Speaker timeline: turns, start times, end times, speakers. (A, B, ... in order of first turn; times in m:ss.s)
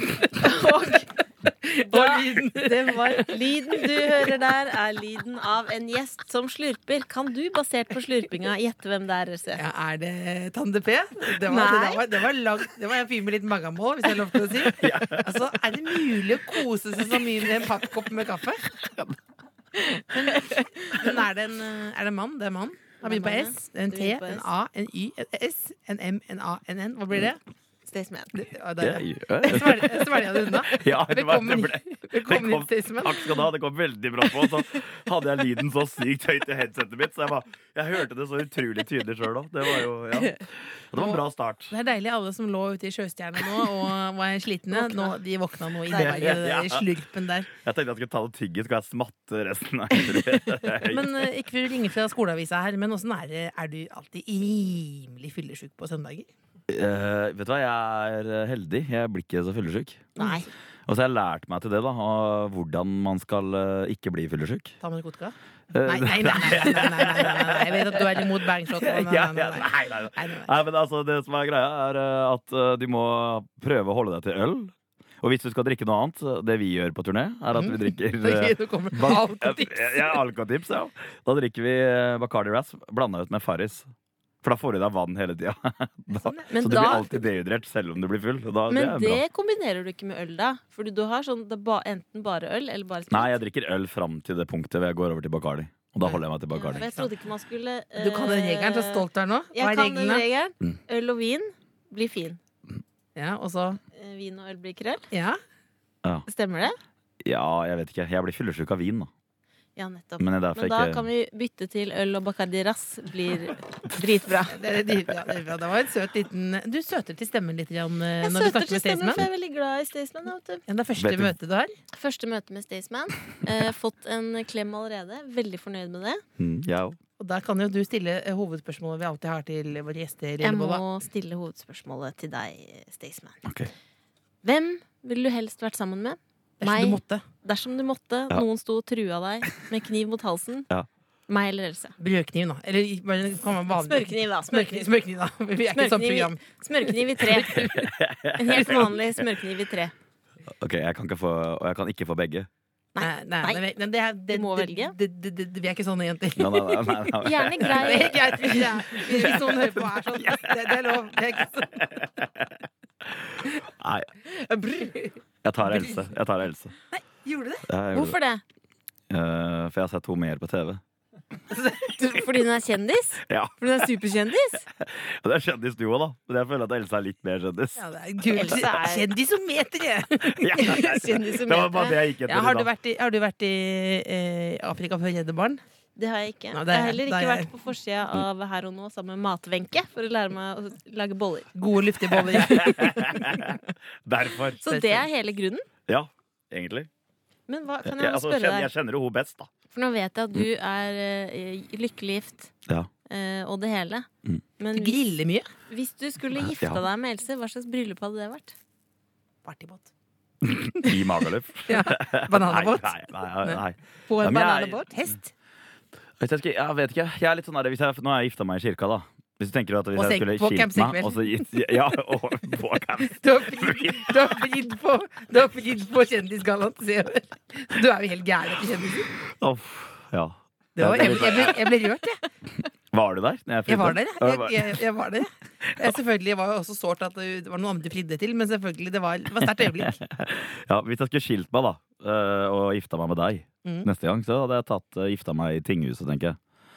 0:00.3-0:01.1 A
0:01.4-0:04.4 B
0:01.8-0:09.6 A
0:09.6-0:18.7 B
0:11.4-0:12.1 A
0:14.8-0:15.3 C
0:19.8-0:21.1 A
0:20.1-0:27.4 B
0:23.0-0:24.5 A
0:27.9-0:28.3 A
0:28.3-0:33.4 B
0:28.8-0:41.7 C
0:41.0-0:47.5 B
0:44.8-0:45.1 A
0:45.9-0:47.0 C
0:47.5-0:51.2 C
0:50.9-0:56.3 B
0:56.7-1:00.1 C
1:00.2-1:00.5 B
1:00.2-1:00.5 A
1:00.9-1:04.8 C
1:04.8-1:10.5 B
1:05.7-1:23.9 C
1:17.6-1:20.2 B
1:24.4-1:29.2 C
1:26.1-1:27.1 B
1:26.5-1:27.0 A
1:28.7-1:33.4 A
1:33.1-1:36.9 C
1:36.0-1:37.1 B
1:36.5-1:42.4 A
1:38.0-1:40.2 B
1:43.1-1:43.8 B
1:43.9-1:45.1 A
1:45.1-1:45.4 B
1:46.3-1:46.8 A
1:47.2-1:49.1 C
1:49.8-1:54.6 A
1:50.2-1:51.1 C
1:54.5-1:59.2 B
1:58.2-2:00.6 A
2:00.7-2:01.8 B
2:01.0-2:01.3 C
2:01.9-2:06.2 A
2:06.4-2:07.0 C
2:07.2-2:10.8 B
2:10.4-2:13.4 A
2:13.4-2:13.7 C
2:14.4-2:20.7 A
2:16.6-2:17.2 B
2:21.3-2:22.0 A
2:22.0-2:26.4 B
2:23.8-2:24.9 A
2:25.7-2:27.8 A
2:27.2-2:27.8 B
2:27.8-2:29.0 C
2:28.4-2:29.9 A
2:30.6-2:32.5 C
2:32.9-2:33.6 A
2:33.0-2:41.8 B
2:34.3-2:35.0 A
2:36.4-2:38.2 C
2:37.2-2:39.0 A
2:40.2-2:40.8 C
2:42.0-2:42.4 C
2:43.8-2:44.1 C
2:44.4-2:45.0 A
2:45.4-2:46.7 C
2:45.6-2:46.0 B
2:46.9-2:47.6 B
2:47.7-2:48.2 C
2:47.9-2:48.4 A
2:49.1-2:50.8 C
2:51.5-2:51.9 B
2:52.0-2:54.6 A
2:53.3-2:53.6 C
2:54.8-2:57.8 C
2:57.8-3:00.8 B
2:58.3-2:59.1 A
3:00.3-3:02.7 C
3:00.6-3:02.0 A
3:02.2-3:05.6 B
3:06.0-3:11.5 A
3:06.5-3:07.5 B
3:11.6-3:13.5 B
3:12.1-3:12.8 A
3:12.3-3:14.9 C
3:14.6-3:15.7 A
3:15.9-3:16.9 C
3:17.5-3:18.7 A
3:17.8-3:19.5 C
3:19.7-3:22.5 A
3:23.1-3:24.1 A
3:24.6-3:25.0 A
3:24.7-3:25.5 B
3:25.7-3:28.6 A
3:26.4-3:26.8 C
3:29.4-3:29.9 B
3:30.4-3:34.9 C
3:31.7-3:35.3 B
3:36.2-3:44.3 C
3:40.0-3:41.5 B
3:43.1-3:49.1 B
3:49.4-3:51.7 C
3:50.8-3:52.2 B
3:52.9-3:54.8 C
3:53.7-4:00.0 B
3:59.7-4:06.4 C
4:03.6-4:03.9 B